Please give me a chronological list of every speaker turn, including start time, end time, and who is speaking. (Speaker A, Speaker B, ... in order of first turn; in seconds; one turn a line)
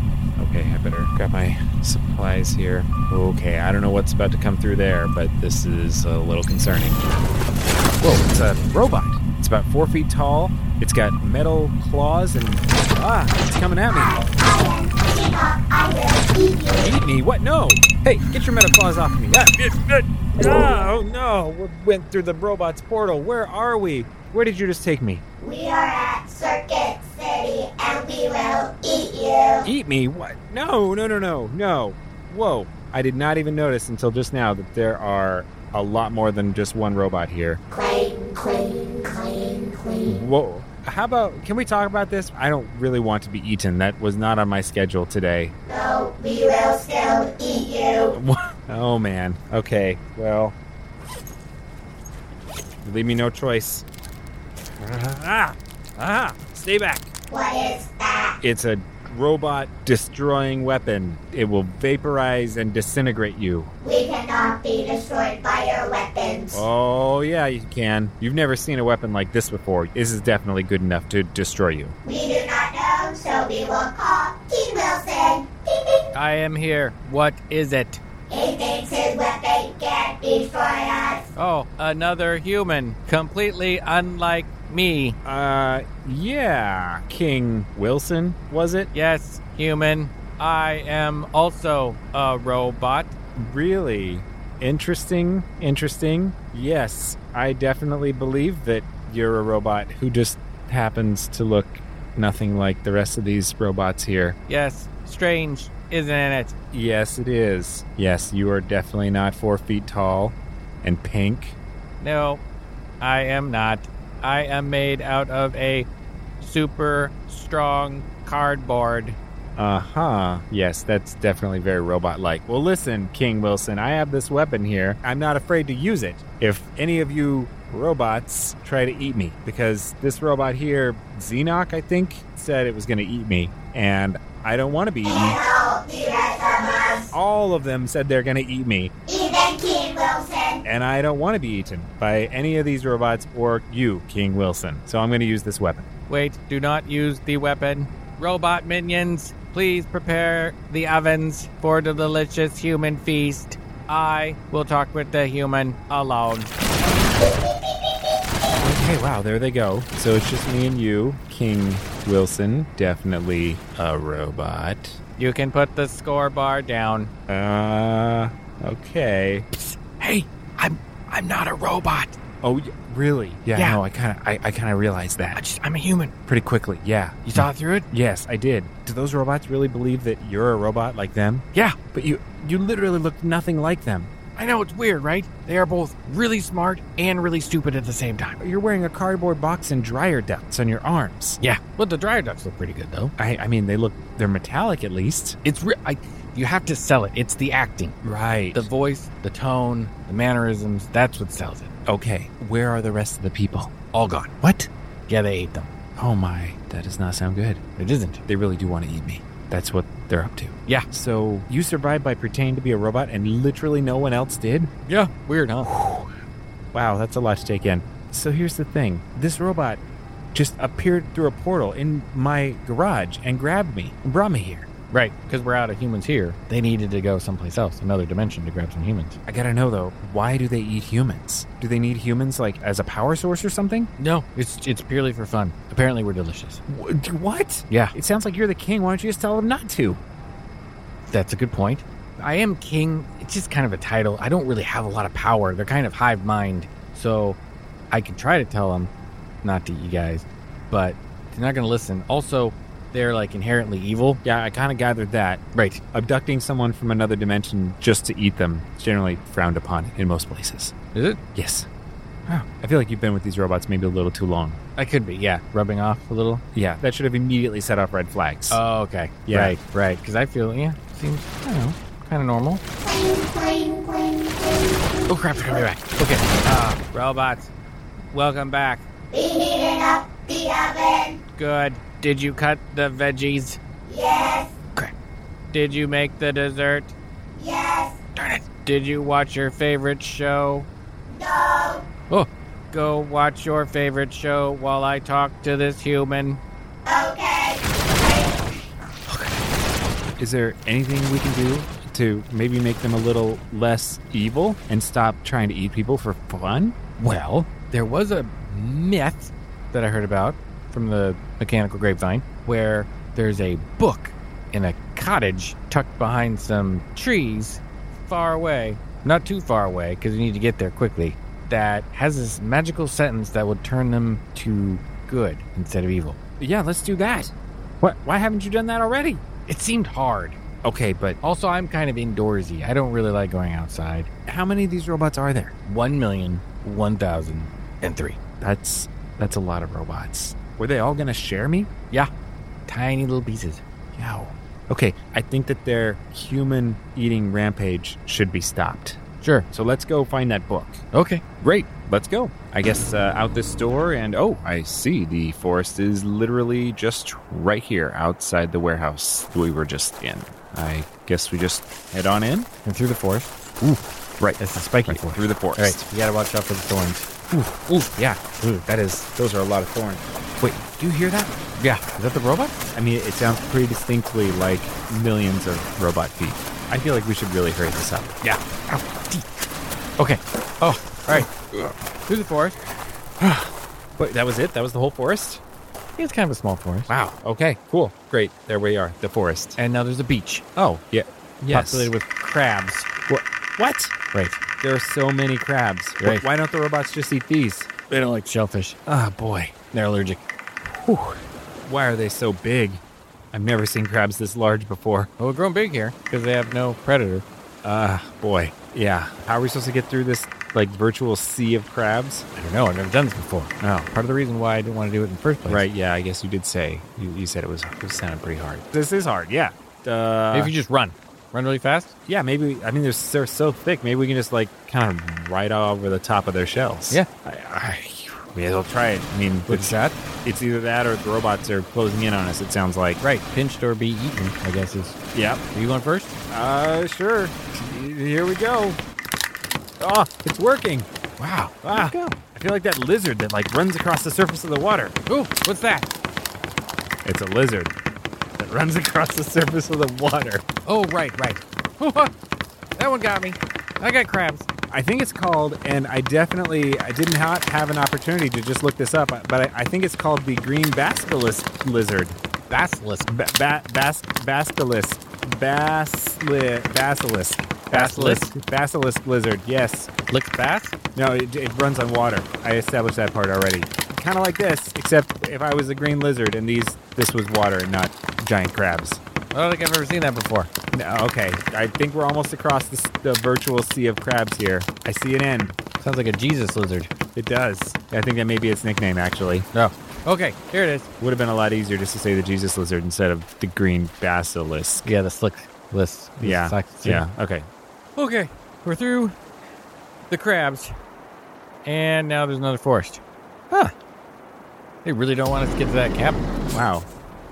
Speaker A: 0.4-7.1
Speaker A: 8.0-14.1
Speaker B: 13.9-16.9
Speaker A: 16.8-25.2
Speaker B: 25.4-29.7
Speaker A: 29.6-37.6
Speaker B: 37.7-40.2
Speaker A: 40.0-45.5
Speaker B: 45.7-48.2
Speaker A: 48.1-50.5
Speaker A: 52.8-53.9
Speaker A: 54.8-57.1
Speaker B: 57.3-58.4
Speaker A: 58.4-63.7
Speaker B: 63.8-66.6
Speaker A: 66.5-72.0
Speaker B: 72.0-76.0
Speaker C: 76.1-78.0
Speaker B: 78.3-81.3
Speaker C: 81.3-85.2
Speaker A: 85.2-88.9
Speaker C: 88.9-93.1
Speaker A: 93.4-104.4
Speaker C: 104.5-106.5
Speaker A: 106.7-111.6
Speaker C: 112.0-112.4
Speaker C: 113.0-115.9
Speaker C: 116.4-119.2
Speaker A: 119.6-135.4
Speaker B: 135.1-137.1
Speaker A: 137.1-138.9
Speaker B: 139.1-140.6
Speaker A: 140.6-145.9
Speaker C: 146.1-156.5
Speaker B: 157.1-158.5
Speaker A: 158.6-165.0
Speaker C: 165.2-167.1
Speaker A: 167.3-169.4
Speaker C: 169.5-172.2
Speaker A: 172.4-175.4
Speaker C: 175.3-176.1
Speaker A: 176.3-184.1
Speaker C: 177.2-177.9
Speaker C: 184.3-188.4
Speaker A: 188.4-191.4
Speaker C: 191.4-193.1
Speaker A: 193.2-195.4
Speaker C: 195.4-197.9
Speaker A: 198.0-198.7
Speaker C: 198.5-201.7
Speaker A: 201.8-203.7
Speaker C: 203.9-204.3
Speaker A: 204.4-204.7
Speaker C: 205.1-205.7
Speaker A: 206.0-207.6
Speaker C: 207.8-208.2
Speaker A: 208.3-214.7
Speaker C: 214.8-215.7
Speaker A: 215.6-216.1
Speaker A: 216.7-219.8
Speaker A: 220.3-224.7
Speaker C: 224.9-229.2
Speaker A: 229.3-233.9
Speaker C: 234.0-236.6
Speaker A: 236.7-240.0
Speaker C: 241.1-247.4
Speaker C: 247.9-248.9
Speaker C: 249.4-254.2
Speaker A: 254.2-255.4
Speaker C: 255.5-255.8
Speaker A: 255.9-260.7
Speaker C: 260.9-261.2
Speaker A: 261.3-261.7
Speaker A: 262.3-264.6
Speaker C: 264.8-266.4
Speaker A: 266.5-268.6
Speaker C: 268.5-272.6
Speaker A: 269.2-269.5
Speaker B: 272.8-275.6
Speaker C: 275.1-277.5
Speaker C: 278.1-278.8
Speaker B: 279.1-281.2
Speaker C: 281.3-283.6
Speaker B: 283.8-284.5
Speaker C: 285.5-286.9
Speaker B: 287.3-288.0
Speaker C: 288.1-290.7
Speaker B: 291.1-291.9
Speaker C: 292.1-296.4
Speaker B: 296.9-298.5
Speaker C: 299.1-299.4
Speaker A: 300.2-306.8
Speaker C: 307.0-326.2
Speaker A: 326.4-329.2
Speaker C: 329.5-330.4
Speaker A: 330.6-331.2
Speaker C: 331.2-334.1
Speaker A: 334.3-335.5
Speaker C: 335.6-338.2
Speaker A: 338.4-341.7
Speaker C: 342.7-343.6
Speaker A: 344.0-350.8
Speaker C: 349.2-349.5
Speaker C: 350.9-351.2
Speaker A: 351.4-362.5
Speaker C: 362.6-363.8
Speaker A: 364.2-365.8
Speaker C: 364.4-367.1
Speaker A: 367.3-371.3
Speaker C: 371.6-372.6
Speaker A: 372.7-378.2
Speaker C: 378.2-379.2
Speaker C: 380.0-381.3
Speaker C: 382.1-382.6
Speaker A: 383.2-385.4
Speaker C: 386.0-386.9
Speaker A: 386.9-389.6
Speaker C: 389.6-390.4
Speaker A: 390.6-391.9
Speaker C: 391.5-392.9
Speaker A: 393.1-393.9
Speaker C: 394.1-394.4
Speaker A: 394.6-397.7
Speaker C: 397.9-398.8
Speaker A: 398.9-399.5
Speaker C: 399.7-400.2
Speaker A: 400.6-402.8
Speaker A: 403.3-405.1
Speaker C: 405.2-407.2
Speaker A: 407.6-412.2
Speaker C: 412.3-415.6
Speaker A: 413.6-413.9
Speaker A: 415.4-420.5
Speaker C: 420.3-421.9
Speaker A: 422.1-433.0
Speaker C: 429.5-429.9
Speaker C: 433.0-435.0
Speaker A: 435.1-435.4
Speaker C: 435.5-436.1
Speaker A: 436.3-438.8
Speaker A: 439.8-440.9
Speaker C: 441.2-442.2
Speaker A: 441.6-444.9
Speaker C: 445.1-445.9
Speaker A: 447.0-447.7
Speaker A: 448.4-450.4
Speaker C: 450.6-452.1
Speaker C: 452.8-454.4
Speaker A: 454.7-462.2
Speaker C: 462.5-463.1
Speaker A: 463.1-469.9
Speaker C: 467.7-468.3
Speaker C: 470.1-470.7
Speaker A: 470.9-479.0
Speaker C: 479.3-480.5
Speaker A: 480.7-485.5
Speaker C: 485.8-486.9
Speaker A: 487.1-489.5
Speaker C: 489.5-490.9
Speaker A: 491.0-494.9
Speaker C: 494.8-497.0
Speaker A: 496.2-497.5
Speaker C: 497.9-499.1
Speaker C: 500.1-500.7
Speaker C: 501.6-503.0
Speaker C: 504.8-506.2
Speaker A: 506.5-506.9